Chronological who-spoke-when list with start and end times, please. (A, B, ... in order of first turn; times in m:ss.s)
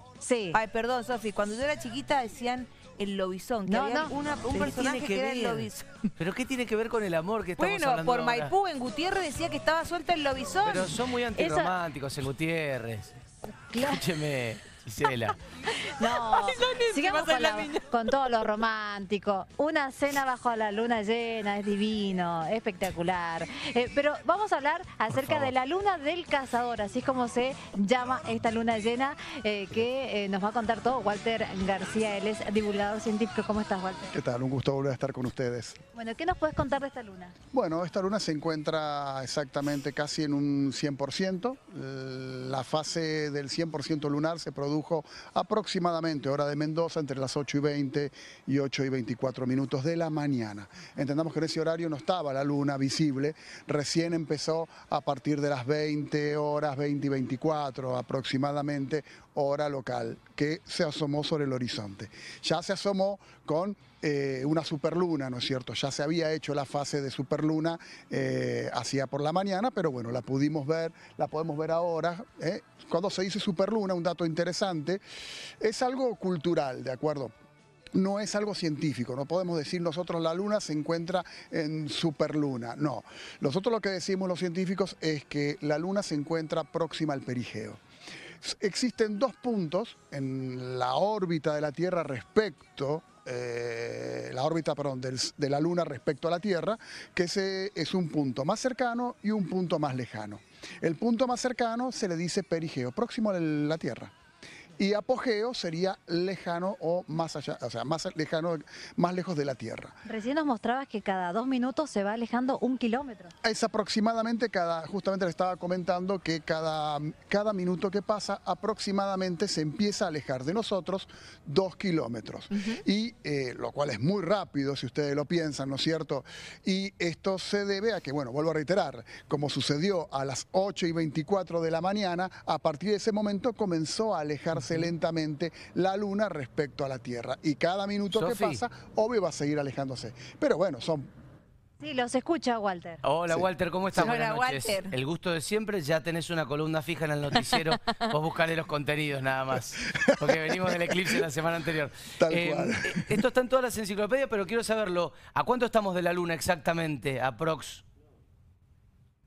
0:00.2-0:00.6 A
0:00.5-0:06.1 B
0:03.7-0:04.1 A
0:04.3-0:05.7 C
0:06.2-0:08.5 C
0:07.6-0:11.0 B
0:10.6-0:13.1 C
0:11.3-0:11.7 A
0:13.6-0:14.0 A
0:13.8-0:15.4 C
0:15.8-0:34.2 A
0:16.0-0:17.9 B
0:25.1-0:25.5 C
0:34.1-0:35.8 D
0:35.9-0:37.3 A
0:37.5-1:15.0 D
1:15.6-1:17.3 D
1:17.9-1:27.8 D
1:28.4-1:44.1 D
1:44.8-1:50.0 D
1:50.0-1:53.3 A
1:53.4-2:21.1 D
2:18.1-2:18.6 C
2:21.8-2:23.0 A
2:23.0-2:37.8 C
2:24.0-2:25.0 B
2:27.4-2:27.7 B
2:29.9-2:31.2 D
2:32.2-2:33.2 D